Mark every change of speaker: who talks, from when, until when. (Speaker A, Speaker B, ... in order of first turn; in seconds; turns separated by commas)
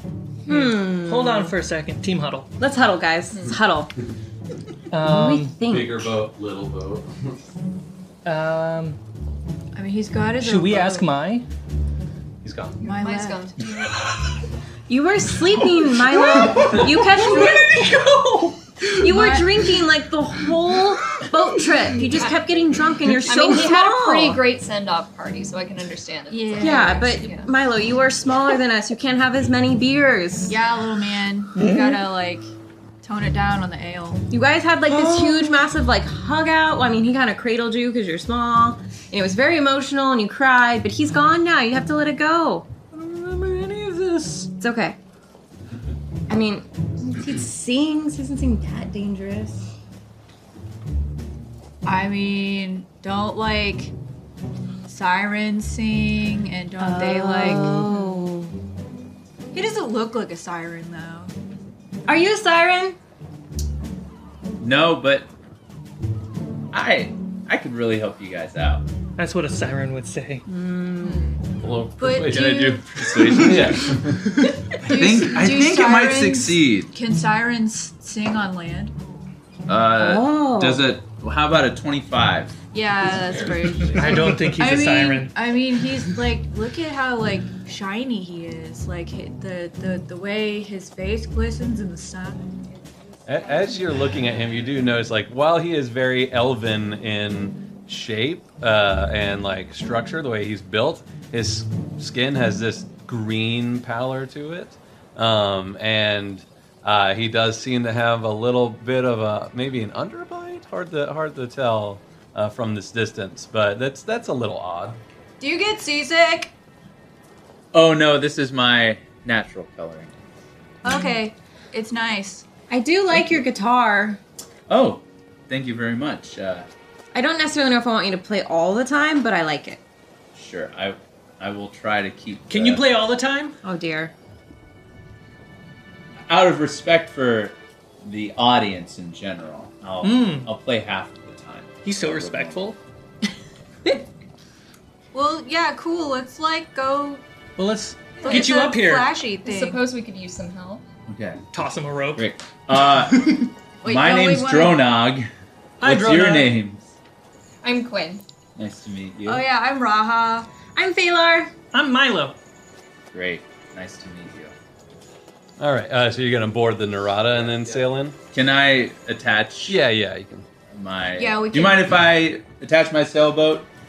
Speaker A: 0.4-1.5, Speaker B: 0.5-2.5, Speaker A: 2.6-3.9, Speaker B: 4.9-5.6, Speaker A: 5.0-6.0, Speaker C: 5.7-7.4, Speaker B: 8.2-9.0, Speaker D: 9.7-11.1, Speaker B: 10.4-11.4, Speaker C: 12.4-12.8, Speaker E: 12.8-14.0, Speaker D: 12.8-13.5, Speaker A: 14.9-17.8, Speaker B: 15.8-18.9, Speaker D: 17.6-18.0, Speaker A: 18.9-24.4, Speaker D: 19.0-19.6, Speaker E: 23.3-27.5, Speaker D: 26.3-27.3, Speaker A: 26.6-30.6, Speaker D: 30.5-32.5, Speaker B: 31.6-32.0, Speaker D: 33.0-34.3, Speaker A: 34.3-42.7, Speaker B: 34.9-35.6, Speaker B: 42.9-44.5, Speaker A: 44.6-45.0, Speaker A: 46.3-49.6, Speaker D: 51.8-53.9, Speaker D: 54.9-58.2, Speaker A: 56.8-58.5, Speaker D: 59.5-61.3, Speaker A: 62.0-63.0, Speaker F: 64.6-65.3, Speaker F: 66.7-68.8, Speaker B: 69.2-70.4, Speaker A: 70.5-71.3, Speaker D: 71.0-71.4, Speaker C: 71.6-74.2, Speaker D: 72.0-73.9, Speaker F: 73.0-73.9, Speaker D: 74.8-78.9, Speaker F: 74.8-76.9, Speaker F: 79.7-82.5, Speaker A: 80.0-80.9, Speaker D: 82.7-92.6, Speaker C: 83.0-84.0, Speaker B: 84.0-85.3, Speaker C: 93.2-115.0, Speaker D: 115.4-116.5, Speaker F: 117.7-120.2, Speaker D: 120.8-122.5, Speaker A: 122.7-124.2, Speaker F: 123.1-123.4, Speaker F: 124.7-126.7, Speaker A: 127.1-129.8, Speaker F: 130.3-132.8, Speaker B: 132.5-133.6, Speaker A: 133.6-134.1, Speaker F: 136.3-142.6, Speaker B: 140.0-140.5, Speaker B: 141.8-142.8, Speaker D: 145.1-147.2, Speaker B: 147.6-149.1, Speaker D: 148.2-149.8, Speaker E: 148.2-148.5, Speaker E: 149.4-150.8, Speaker F: 151.1-151.4, Speaker B: 151.5-152.3, Speaker F: 152.2-155.3, Speaker D: 153.8-154.9, Speaker B: 155.8-156.6, Speaker F: 155.8-156.9, Speaker E: 157.6-158.2, Speaker F: 158.6-159.4, Speaker D: 159.2-160.5, Speaker A: 160.7-161.5, Speaker B: 161.7-162.4, Speaker F: 163.1-164.5, Speaker C: 165.6-168.2, Speaker F: 167.3-169.8, Speaker C: 169.7-170.4, Speaker F: 170.7-173.7, Speaker D: 171.1-171.9